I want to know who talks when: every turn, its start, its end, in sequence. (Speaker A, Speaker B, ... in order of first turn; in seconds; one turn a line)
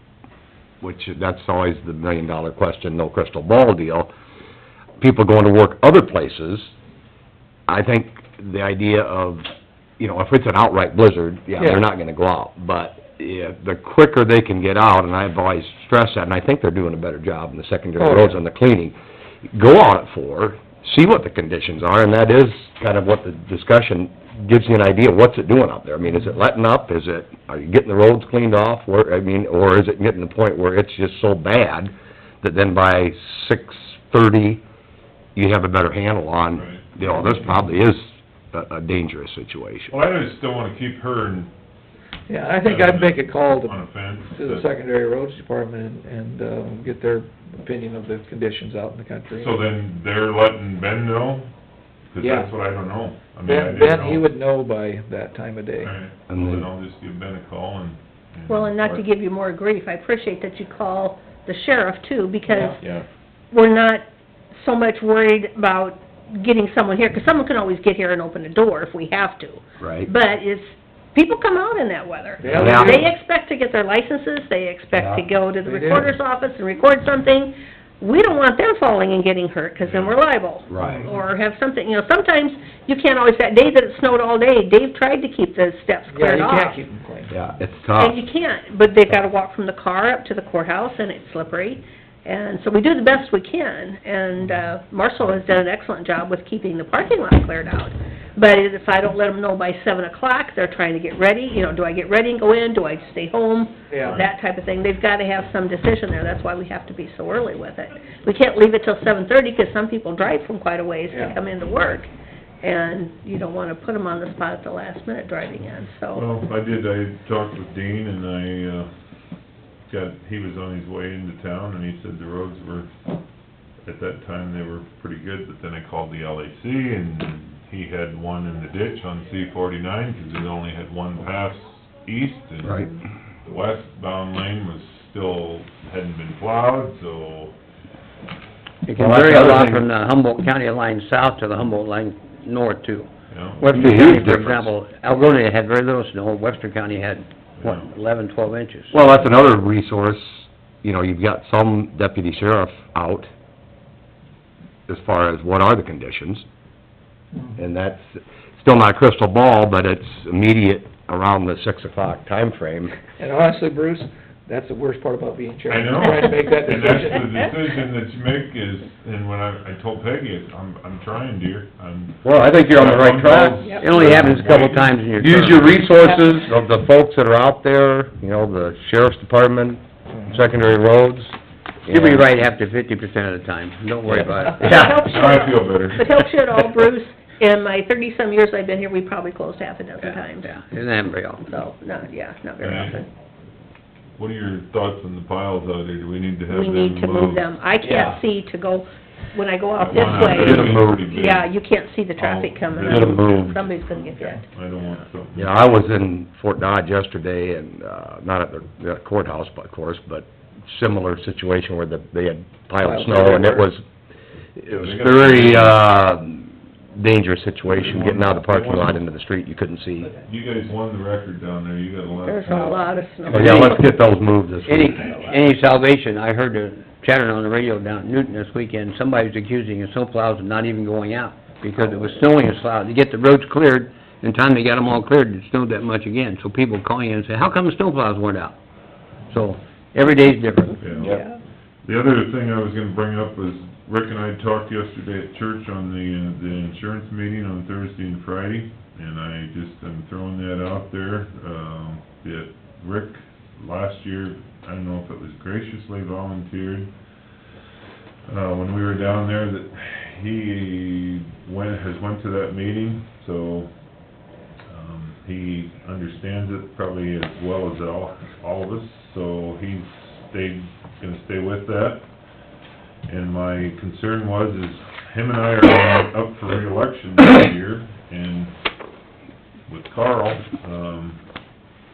Speaker A: 0.8-4.1
Speaker A: 5.0-6.7
Speaker A: 7.7-9.4
Speaker A: 10.0-18.9
Speaker B: 11.6-11.8
Speaker B: 18.0-18.4
Speaker A: 19.5-34.6
Speaker A: 35.4-39.9
Speaker C: 36.5-36.9
Speaker C: 39.9-41.5
Speaker B: 42.3-49.6
Speaker C: 42.6-44.7
Speaker C: 49.3-51.5
Speaker C: 52.1-54.3
Speaker B: 52.2-52.5
Speaker B: 53.4-55.9
Speaker C: 55.8-59.0
Speaker A: 56.3-56.7
Speaker D: 58.5-62.8
Speaker B: 62.5-63.0
Speaker D: 63.5-86.8
Speaker A: 69.8-70.1
Speaker B: 72.4-73.1
Speaker A: 72.6-73.1
Speaker A: 74.9-75.3
Speaker B: 75.6-76.1
Speaker C: 79.8-80.2
Speaker A: 80.7-81.1
Speaker B: 86.1-87.4
Speaker A: 87.3-88.2
Speaker D: 88.0-112.1
Speaker B: 103.9-104.2
Speaker C: 104.0-104.3
Speaker B: 111.1-111.4
Speaker D: 112.6-116.2
Speaker C: 116.1-118.9
Speaker C: 119.9-122.9
Speaker C: 123.8-132.9
Speaker A: 132.6-132.9
Speaker C: 133.4-137.5
Speaker E: 138.8-143.1
Speaker A: 139.0-139.8
Speaker C: 143.3-143.8
Speaker E: 143.6-149.0
Speaker A: 143.7-144.7
Speaker C: 147.6-147.9
Speaker A: 148.9-153.3
Speaker A: 154.9-156.4
Speaker B: 157.3-157.6
Speaker A: 157.6-162.9
Speaker B: 163.2-167.5
Speaker C: 165.7-175.0
Speaker A: 172.2-173.7
Speaker D: 173.6-174.4
Speaker E: 173.8-175.8
Speaker A: 175.2-182.2
Speaker E: 181.9-185.0
Speaker A: 184.1-185.0
Speaker D: 184.6-190.5
Speaker C: 185.0-186.2
Speaker E: 190.0-191.5
Speaker D: 191.5-193.1
Speaker C: 192.6-193.0
Speaker C: 194.2-197.6
Speaker D: 196.5-204.4
Speaker E: 197.8-198.2
Speaker C: 199.8-201.5
Speaker A: 199.9-201.2
Speaker C: 202.2-203.6
Speaker A: 202.8-203.6
Speaker C: 204.5-205.6
Speaker A: 205.3-213.8
Speaker B: 212.8-213.7
Speaker A: 214.6-220.1
Speaker C: 214.7-215.8
Speaker C: 217.7-219.0
Speaker C: 220.2-222.8
Speaker D: 222.2-223.9
Speaker A: 223.3-225.1
Speaker E: 224.7-238.6
Speaker E: 239.3-241.2
Speaker C: 240.8-241.2
Speaker C: 241.8-256.9
Speaker C: 258.3-263.7
Speaker C: 264.7-272.1
Speaker C: 273.1-278.5
Speaker C: 279.7-281.2